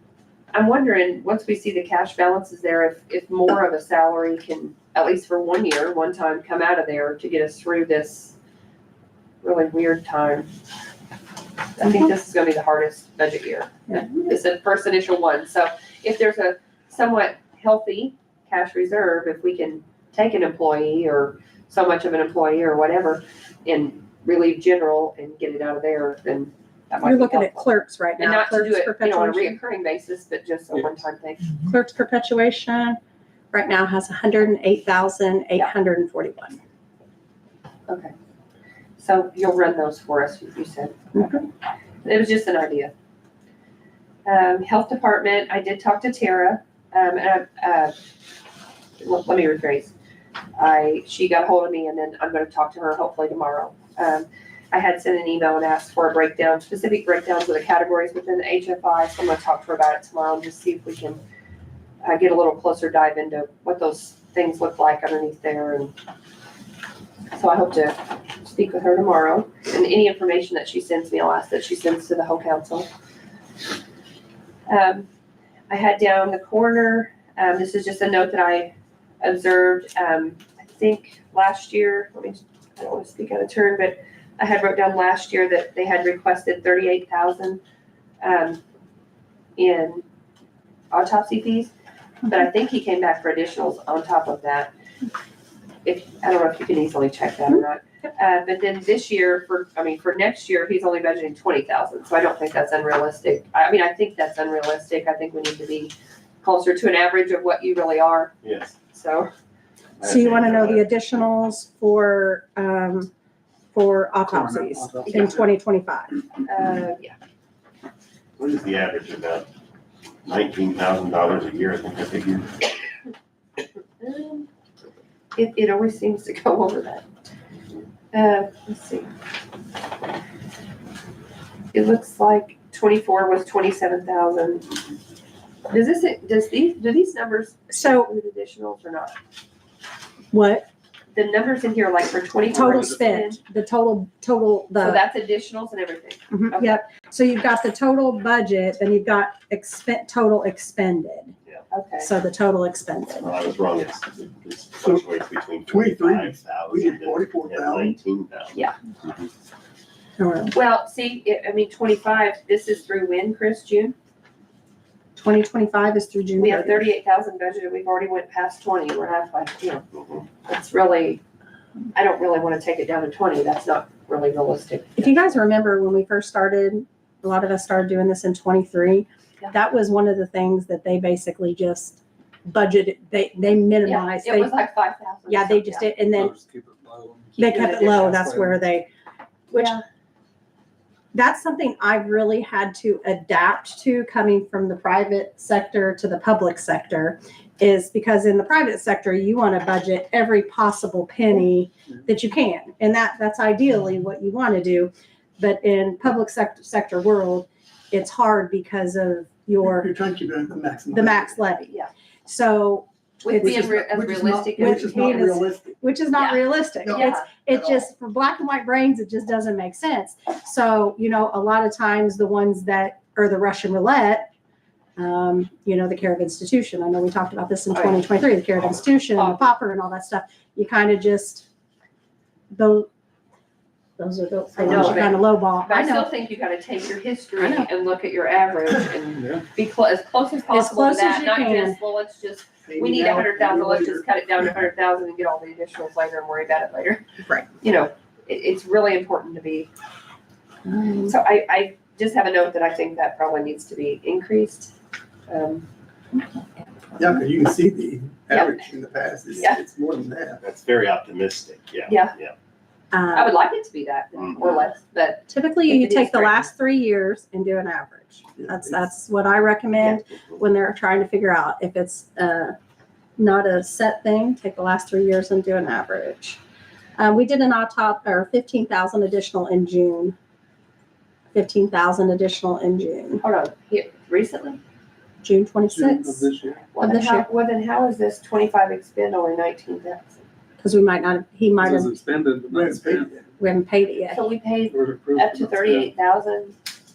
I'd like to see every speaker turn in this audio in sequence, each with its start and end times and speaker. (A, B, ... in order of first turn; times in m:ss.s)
0:00.5-0:08.4 A
0:09.4-0:10.5 A
0:11.8-0:27.7 A
0:27.0-0:29.6 B
0:28.2-0:31.5 A
0:31.6-0:33.0 B
0:33.5-0:36.6 B
0:37.9-0:38.1 A
0:39.0-0:41.4 A
0:41.1-0:41.4 B
0:42.0-0:42.9 A
0:44.2-0:48.0 A
0:49.0-0:49.9 A
0:50.6-1:01.2 A
1:02.0-1:05.9 A
1:07.3-1:12.9 A
1:14.7-1:15.1 A
1:15.7-1:27.6 A
1:28.2-1:28.6 A
1:29.6-1:30.0 A
1:30.9-1:31.7 A
1:32.2-1:34.7 A
1:35.8-1:48.3 A
1:48.4-1:48.7 C
1:48.9-1:49.3 A
1:50.0-1:50.8 C
1:50.0-1:53.1 B
1:53.7-1:56.1 B
1:54.3-1:55.4 D
1:55.0-1:55.3 A
1:56.4-1:57.1 A
1:58.4-1:59.5 C
2:00.2-2:02.7 C
2:04.0-2:04.5 A
2:05.3-2:07.0 A
2:08.1-2:09.1 A
2:11.7-2:14.7 A
2:15.7-2:19.1 A
2:17.7-2:18.1 B
2:20.3-2:20.6 B
2:21.1-2:23.4 A
2:22.5-2:25.0 B
2:24.8-2:26.8 A
2:26.3-2:31.3 B
2:31.7-2:32.1 A
2:32.0-2:33.3 B
2:33.2-2:39.2 C
2:35.7-2:38.0 D
2:40.2-2:40.5 B
2:40.5-2:43.9 A
2:45.2-2:46.9 B
2:46.4-2:49.8 A
2:49.9-2:50.2 C
2:50.4-2:51.2 A
2:51.9-2:55.4 A
2:55.0-3:04.6 B
3:03.8-3:05.9 A
3:05.3-3:06.3 B
3:06.0-3:08.6 E
3:07.4-3:08.9 B
3:07.5-3:08.2 A
3:09.5-3:09.8 B
3:09.5-3:09.8 A
3:11.1-3:29.9 B
3:29.6-3:31.3 D
3:30.9-3:31.7 B
3:31.6-3:31.9 A
3:32.2-3:33.7 B
3:33.2-3:35.4 A
3:33.4-3:35.8 D
3:34.6-3:44.2 B
3:36.1-3:37.3 A
3:36.8-3:37.8 D
3:45.0-3:51.4 B
3:47.7-3:48.0 A
3:49.1-3:49.5 A
3:52.5-3:52.9 B
3:54.0-3:56.1 B
3:54.5-4:07.0 A
3:54.6-3:55.0 D
3:57.4-3:57.7 B
4:00.5-4:01.8 B
4:02.7-4:04.4 D
4:07.6-4:09.7 A
4:10.6-4:11.1 B
4:11.0-4:14.7 A
4:15.3-4:15.6 A
4:17.0-4:20.4 D
4:18.3-4:18.6 A
4:19.3-4:19.6 A
4:20.4-4:22.3 C
4:21.9-4:22.1 A
4:22.9-4:23.3 B
4:23.1-4:26.4 A
4:24.2-4:24.5 C
4:25.3-4:32.5 B
4:28.4-4:28.8 D
4:33.2-4:36.4 B
4:37.0-4:40.1 B
4:41.3-4:43.2 B
4:43.2-4:44.6 A
4:45.2-4:47.3 B
4:45.7-4:46.7 E
4:46.7-4:50.2 A
4:50.6-4:51.9 B
4:51.6-4:53.2 E
4:52.5-4:53.2 D
4:53.4-4:54.2 B
4:54.1-4:56.5 A
4:54.7-4:55.9 E